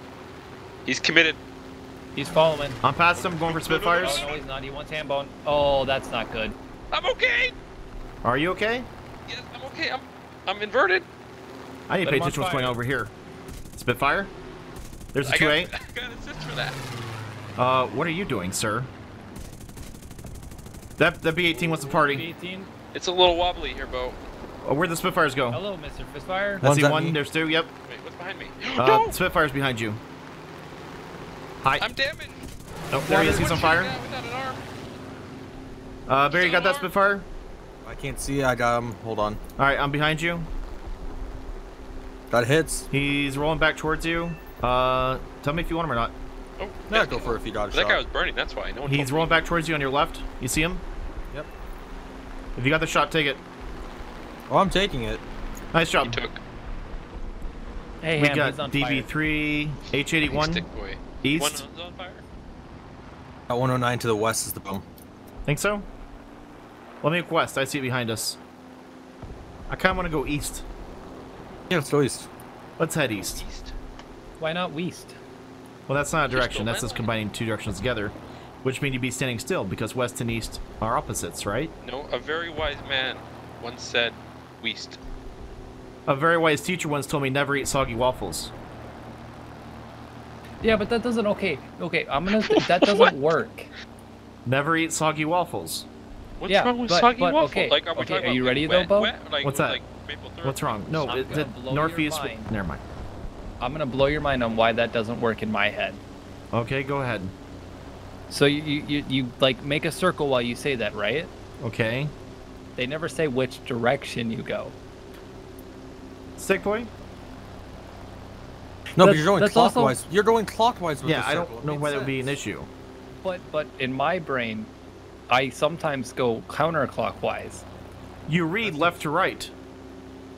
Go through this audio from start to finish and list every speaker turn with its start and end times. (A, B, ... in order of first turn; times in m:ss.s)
0:00.8-0:01.4 A
0:02.1-0:02.8 B
0:02.8-0:04.2 C
0:03.2-0:04.4 A
0:04.0-0:06.6 B
0:06.9-0:07.5 A
0:08.2-0:08.9 C
0:09.3-0:11.1 A
0:11.9-0:13.1 C
0:12.0-0:12.8 B
0:13.8-0:14.3 C
0:15.1-0:15.7 C
0:15.2-0:16.8 A
0:17.6-0:18.9 C
0:21.0-0:22.2 C
0:21.5-0:22.2 A
0:22.0-0:22.7 B
0:22.9-0:24.2 A
0:24.6-0:25.6 C
0:25.5-0:26.7 B
0:26.6-0:27.2 D
0:26.6-0:27.7 C
0:27.9-0:29.1 A
0:28.8-0:30.0 C
0:31.6-0:31.9 C
0:31.8-0:32.4 A
0:32.9-0:33.9 C
0:33.1-0:34.6 A
0:33.1-0:33.3 D
0:36.1-0:37.3 C
0:36.3-0:36.9 A
0:37.8-0:39.4 D
0:39.6-0:40.5 C
0:42.3-0:42.9 D
0:42.9-0:46.1 C
0:46.6-0:49.4 A
0:46.9-0:48.0 D
0:48.8-0:50.8 C
0:52.6-0:53.4 C
0:54.5-0:55.2 D
0:55.7-0:56.2 C
0:56.0-0:56.4 A
0:58.0-0:59.1 B
0:58.2-1:00.6 C
1:00.2-1:02.2 A
1:01.2-1:01.7 C
1:03.5-1:04.8 D
1:05.4-1:05.9 C
1:07.0-1:08.4 C
1:09.7-1:10.6 C
1:11.7-1:12.3 D
1:12.8-1:13.4 C
1:13.1-1:13.7 A
1:14.4-1:15.2 B
1:15.9-1:21.7 C
1:16.3-1:17.1 A
1:21.8-1:25.0 A
1:26.1-1:28.5 C
1:30.6-1:33.7 B
1:32.3-1:33.1 A
1:34.4-1:35.9 C
1:36.4-1:41.3 A
1:36.5-1:39.1 B
1:39.3-1:39.8 C
1:40.4-1:42.8 C
1:40.9-1:42.5 B
1:43.6-1:46.0 B
1:46.5-1:47.3 C
1:48.3-1:51.3 B
1:51.6-1:52.1 C
1:52.8-1:54.8 B
1:56.4-1:56.9 C
1:59.0-2:02.0 D
1:59.0-2:00.0 B
2:01.0-2:02.7 C
2:01.7-2:02.3 B
2:03.2-2:04.7 B
2:05.3-2:07.6 B
2:08.3-2:09.5 C
2:08.6-2:08.9 D